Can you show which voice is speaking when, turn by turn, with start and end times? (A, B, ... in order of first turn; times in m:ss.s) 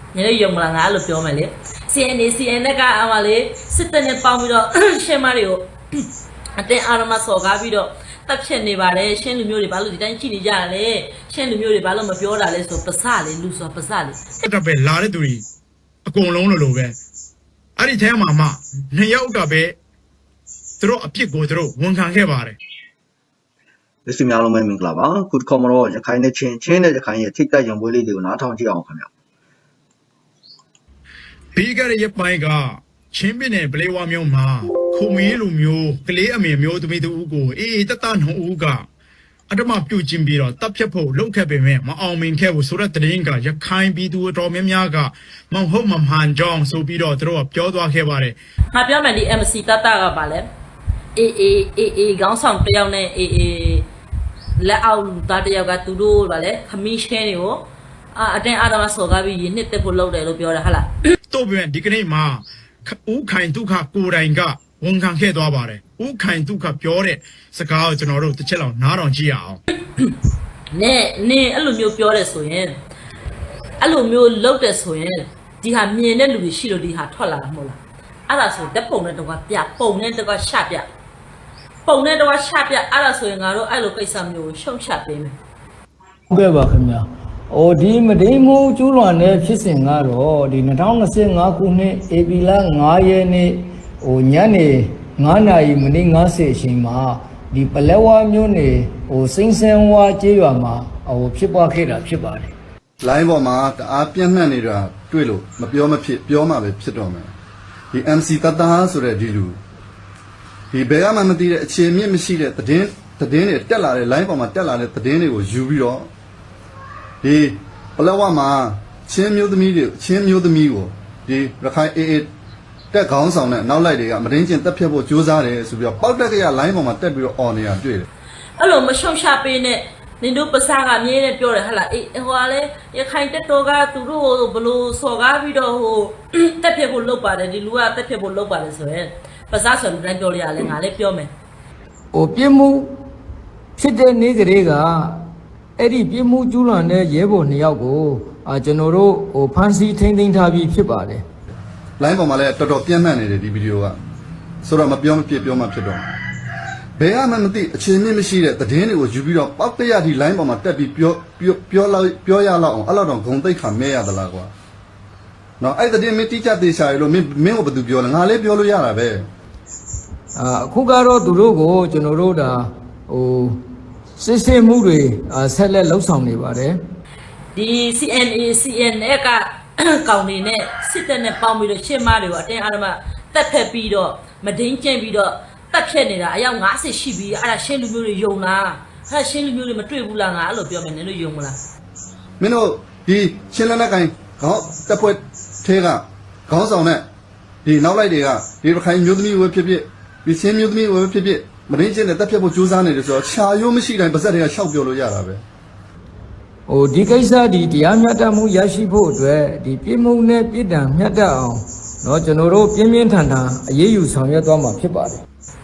0:00.2-0:06.0 A
0:06.6-0:14.4 A
0:14.4-0:15.4 B
0:16.1-0:17.0 B
0:17.8-0:19.8 B
0:20.8-0:22.6 B
0:24.1-0:29.1 C
0:31.6-0:38.9 B
0:39.5-0:48.4 B
0:48.7-0:50.5 A
0:51.2-0:53.9 A
0:54.6-0:57.6 A
0:58.2-1:00.9 A
1:01.3-1:09.6 B
1:10.7-1:12.8 A
1:13.8-1:20.9 A
1:21.9-1:25.4 A
1:26.3-1:42.6 D
1:43.0-1:47.3 E
1:47.9-1:49.6 E
1:50.7-1:56.1 E
1:57.2-2:02.3 E
2:02.9-2:08.1 E
2:08.6-2:21.3 A
2:22.1-2:23.0 D
2:23.8-2:25.3 D
2:25.8-2:31.2 D
2:32.0-2:34.0 E
2:34.6-2:36.1 E
2:37.0-2:44.5 E
2:45.6-2:49.3 E
2:50.4-2:53.6 D
2:54.2-2:56.8 D
2:57.6-3:11.6 A
3:12.4-3:17.0 E
3:17.6-3:25.4 E
3:26.7-3:35.2 D